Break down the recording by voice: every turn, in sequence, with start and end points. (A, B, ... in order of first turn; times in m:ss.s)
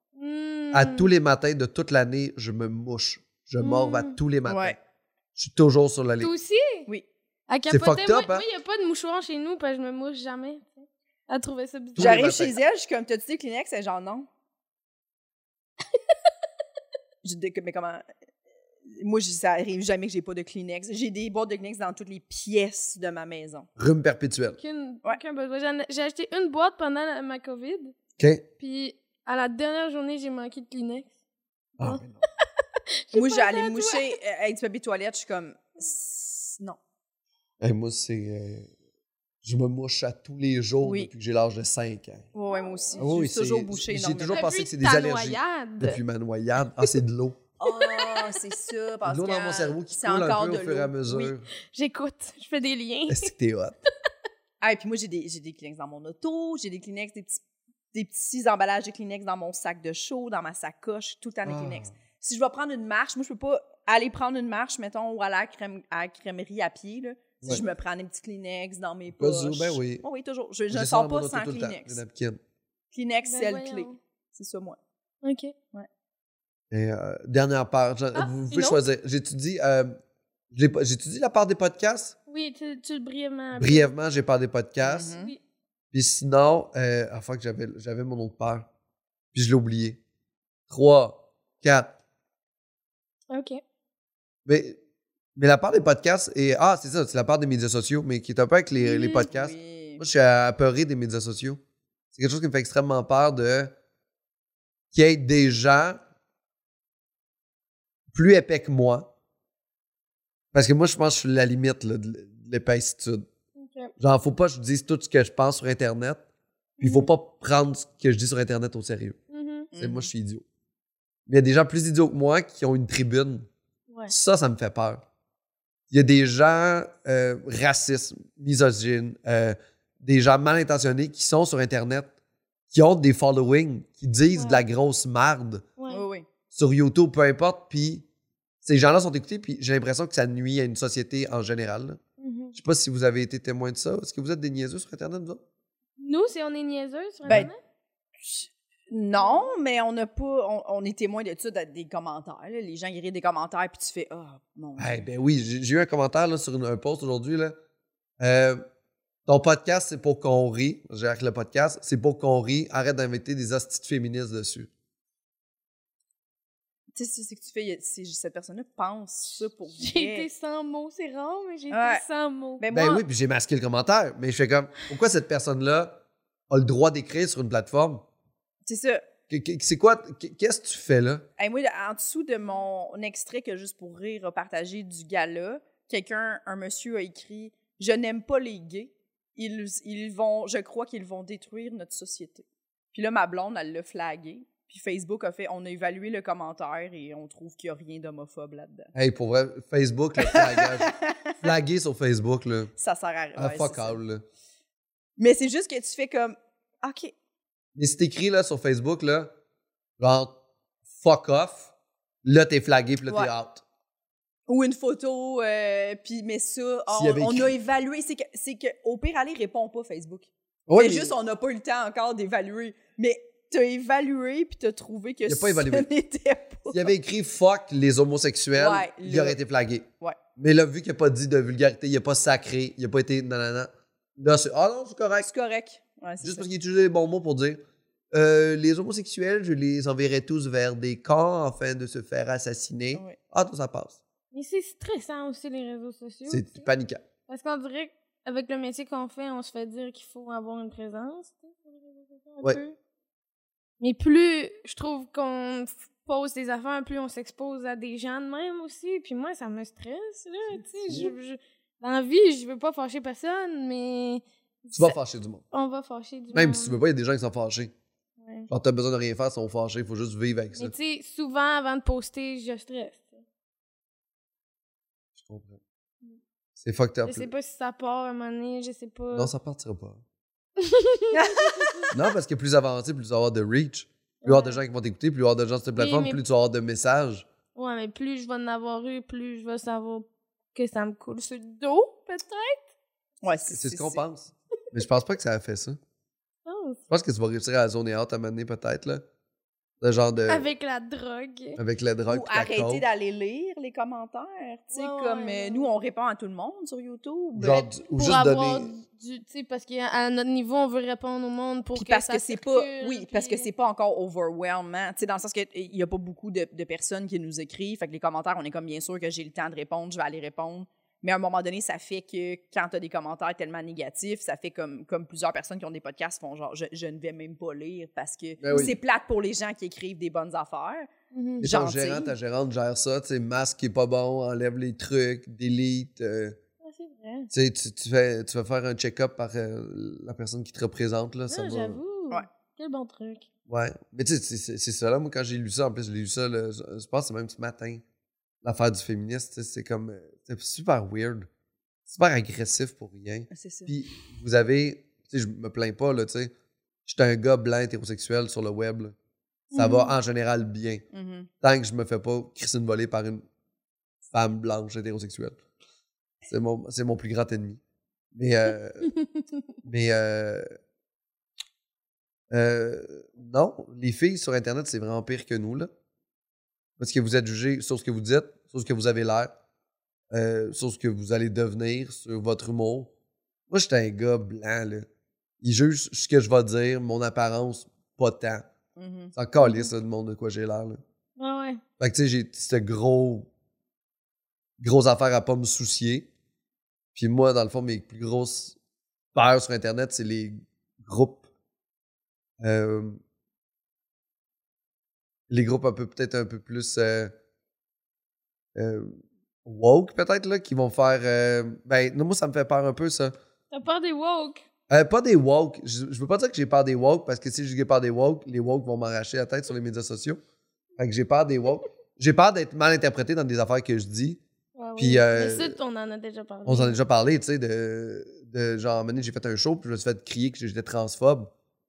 0:00.2-0:01.1 A
0:00.7-0:04.8 B
0:03.6-0:04.2 A
0:04.4-0:04.8 C
0:05.4-0:06.3 B
0:06.2-0:06.9 A
0:07.5-0:12.3 A
0:07.7-0:08.4 B
0:12.0-0:12.6 B
0:12.0-0:14.3 C
0:17.2-0:18.0 C
0:18.9-0:23.7 C
0:23.8-0:24.6 B
0:24.6-0:27.9 A
0:28.2-0:28.4 B
0:28.6-0:31.1 A
0:31.8-0:32.2 B
0:33.1-0:34.0 A
0:33.1-0:36.8 C
0:37.6-0:38.7 B
0:39.4-0:42.3 B
0:40.8-0:41.1 C
0:42.3-0:44.5 C
0:42.5-0:43.0 A
0:43.0-0:47.4 B
0:44.3-0:46.0 A
0:47.6-0:51.3 C
0:47.6-0:48.3 A
0:49.0-0:51.4 B
0:51.7-0:53.3 A
0:53.1-0:53.8 B
0:54.6-0:57.4 C
0:57.9-1:12.0 C
1:01.4-1:01.9 B
1:09.1-1:10.0 B
1:10.7-1:12.4 B
1:12.9-1:14.8 C
1:13.2-1:14.0 A
1:15.2-1:15.5 A
1:16.7-1:20.0 B
1:18.2-1:18.8 A
1:20.5-1:22.2 B
1:22.3-1:23.9 A
1:23.6-1:25.2 B
1:24.8-1:25.3 C
1:25.9-1:28.7 B
1:29.3-1:30.0 B
1:30.7-1:31.9 B
1:33.3-1:33.6 A
1:34.4-1:34.8 B
1:35.4-1:41.6 B
1:38.8-1:39.3 A
1:38.9-1:40.0 C
1:42.1-1:43.7 B
1:44.9-1:46.0 B
1:48.1-1:49.1 B
1:50.5-1:53.3 B
1:53.6-1:53.9 A
1:54.0-1:56.2 B
1:56.8-1:57.1 A
1:56.8-1:59.2 B
1:59.3-1:59.7 A
1:59.7-2:00.1 C
1:59.7-2:00.4 B
2:01.3-2:03.5 B
2:04.1-2:05.0 B
2:05.9-2:12.1 B
2:12.7-2:15.7 B
2:14.3-2:14.6 A
2:15.8-2:16.0 A
2:15.9-2:16.3 C
2:16.5-2:18.0 B
2:18.6-2:22.0 B
2:22.2-2:22.6 A
2:22.5-2:25.4 B
2:26.0-2:27.6 A
2:27.2-2:27.5 C
2:28.2-2:35.0 C
2:29.2-2:29.5 A
2:34.8-2:37.5 B
2:38.2-2:38.6 B
2:39.2-2:44.7 B
2:46.9-2:50.3 C
2:49.8-2:52.6 A
2:51.7-2:52.0 C
2:52.6-2:53.0 C
2:52.7-2:58.0 B
2:58.6-2:59.0 C
2:59.3-3:01.3 B
3:01.4-3:18.9 C
3:18.9-3:22.7 B
3:20.2-3:21.3 C
3:22.8-3:24.0 C
3:23.3-3:24.2 B
3:25.2-3:27.1 C
3:27.7-3:29.3 B
3:30.0-3:30.4 B
3:30.9-3:31.7 B
3:32.2-3:33.6 B
3:34.5-3:46.9 C
3:36.9-3:37.5 B
3:40.7-3:41.1 B
3:45.2-3:45.9 B
3:46.7-3:55.3 B
3:48.5-3:49.4 C
3:55.2-3:56.4 C
3:56.2-3:57.6 B
3:58.1-4:04.0 B
4:04.3-4:06.7 A
4:06.3-4:07.0 B
4:07.3-4:12.8 A
4:13.8-4:25.0 A
4:20.5-4:21.1 B
4:24.7-4:25.4 B
4:25.5-4:26.8 A
4:26.3-4:27.7 B
4:28.2-4:28.5 A
4:28.5-4:30.7 B
4:30.5-4:33.2 A
4:35.2-4:35.6 B
4:36.6-4:37.3 B
4:37.0-4:39.3 A
4:39.1-4:40.0 B
4:40.6-4:41.9 A
4:41.1-4:41.7 C
4:41.9-4:47.3 B
4:44.2-4:44.6 A
4:45.8-4:46.2 A
4:47.5-4:52.6 A
4:53.2-4:54.0 C
4:53.5-4:55.8 B
4:56.4-4:56.8 A
4:56.9-4:59.0 B
4:59.8-5:00.5 B
5:00.3-5:01.6 A
5:01.5-5:02.8 B
5:02.1-5:07.6 C
5:04.7-5:05.7 A
5:07.4-5:08.7 B
5:07.5-5:13.5 A
5:11.7-5:30.9 C
5:28.4-5:28.8 B
5:31.1-5:31.5 A
5:31.4-5:36.4 B
5:31.4-5:32.1 C
5:36.6-5:37.3 A
5:37.3-5:41.8 B
5:41.3-5:43.2 A
5:43.5-5:47.8 B
5:48.4-5:51.3 B
5:51.9-5:56.3 B
5:53.3-5:53.7 C
5:56.8-5:58.9 B
5:59.5-5:59.9 A
5:59.5-6:00.8 B
6:00.9-6:01.3 C
6:01.4-6:03.2 B
6:04.1-6:05.4 B
6:06.3-6:07.6 B
6:08.1-6:08.9 B
6:09.6-6:10.5 B
6:12.3-6:15.7 B
6:16.8-6:19.3 B
6:20.1-6:22.9 B
6:23.5-6:24.9 B
6:25.4-6:28.4 B
6:28.8-6:29.1 C
6:29.1-6:30.8 B
6:29.4-6:29.7 A
6:31.2-6:31.6 A
6:31.8-6:33.3 B
6:34.6-6:36.1 B
6:36.9-6:38.6 B
6:39.1-6:41.2 B
6:42.4-6:43.0 B
6:45.3-6:47.1 B
6:48.5-6:53.1 B
6:53.5-6:54.4 A
6:54.7-7:00.2 B
7:00.8-7:04.2 B
7:04.6-7:06.8 A
7:04.8-7:05.6 B
7:06.4-7:11.3 B